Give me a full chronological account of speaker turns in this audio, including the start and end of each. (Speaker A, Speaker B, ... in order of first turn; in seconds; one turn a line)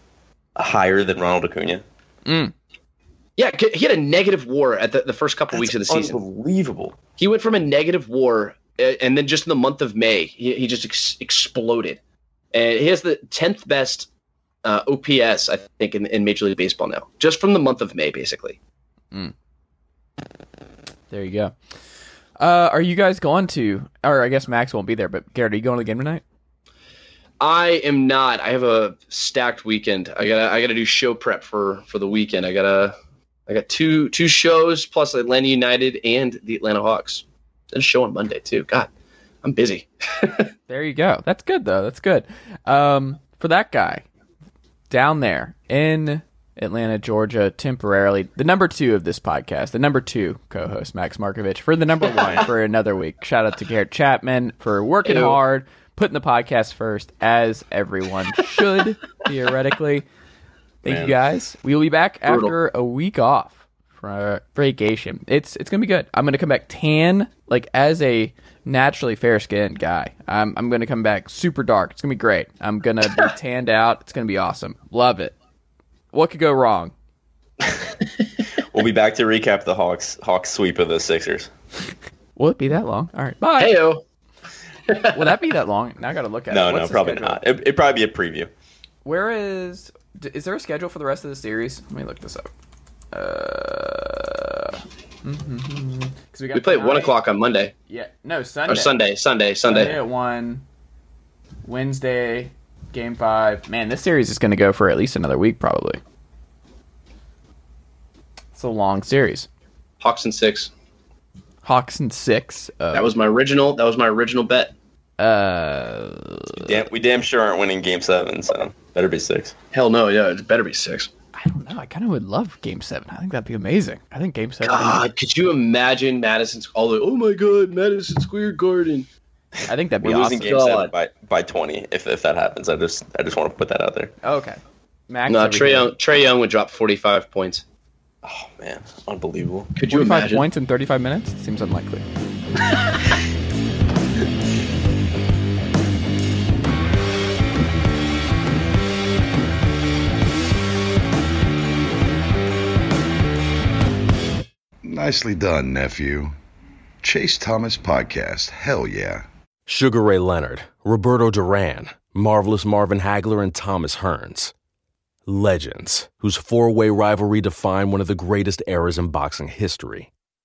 Speaker A: 0.6-1.8
Speaker B: 2.2-2.5
Speaker C: 3.4-6.2
Speaker A: 5.5-7.0
Speaker C: 7.2-12.0
Speaker C: 12.5-14.1
Speaker C: 14.6-18.6
Speaker B: 21.1-21.5
Speaker B: 22.4-26.2
Speaker C: 27.4-32.9
Speaker C: 33.5-38.9
Speaker C: 39.4-40.5
Speaker B: 40.7-44.0
Speaker B: 44.9-60.0
Speaker C: 55.0-55.4
Speaker B: 60.8-75.3
Speaker A: 60.8-61.1
Speaker C: 62.3-62.5
Speaker B: 76.1-76.9
Speaker A: 78.6-81.5
Speaker B: 82.4-83.8
Speaker C: 83.6-84.0
Speaker C: 84.9-85.1
Speaker B: 85.1-87.4
Speaker A: 86.5-88.5
Speaker B: 89.0-92.5
Speaker B: 93.1-97.1
Speaker C: 96.5-97.7
Speaker B: 97.9-98.9
Speaker C: 98.7-100.0
Speaker B: 99.6-100.6
Speaker B: 101.6-106.0
Speaker B: 108.5-109.5
Speaker C: 110.0-110.7
Speaker B: 111.6-113.1
Speaker C: 112.9-114.7
Speaker B: 115.2-116.8
Speaker A: 116.5-119.5
Speaker C: 119.7-121.1
Speaker B: 121.3-125.0
Speaker C: 124.6-129.1
Speaker B: 129.7-130.6
Speaker A: 130.0-134.1
Speaker C: 130.4-130.9
Speaker B: 134.2-135.9
Speaker C: 135.3-137.6
Speaker A: 138.2-139.7
Speaker C: 139.8-140.4
Speaker B: 139.9-142.0
Speaker D: 154.8-156.3
Speaker D: 157.0-159.2
Speaker E: 159.7-164.5
Speaker E: 165.3-170.1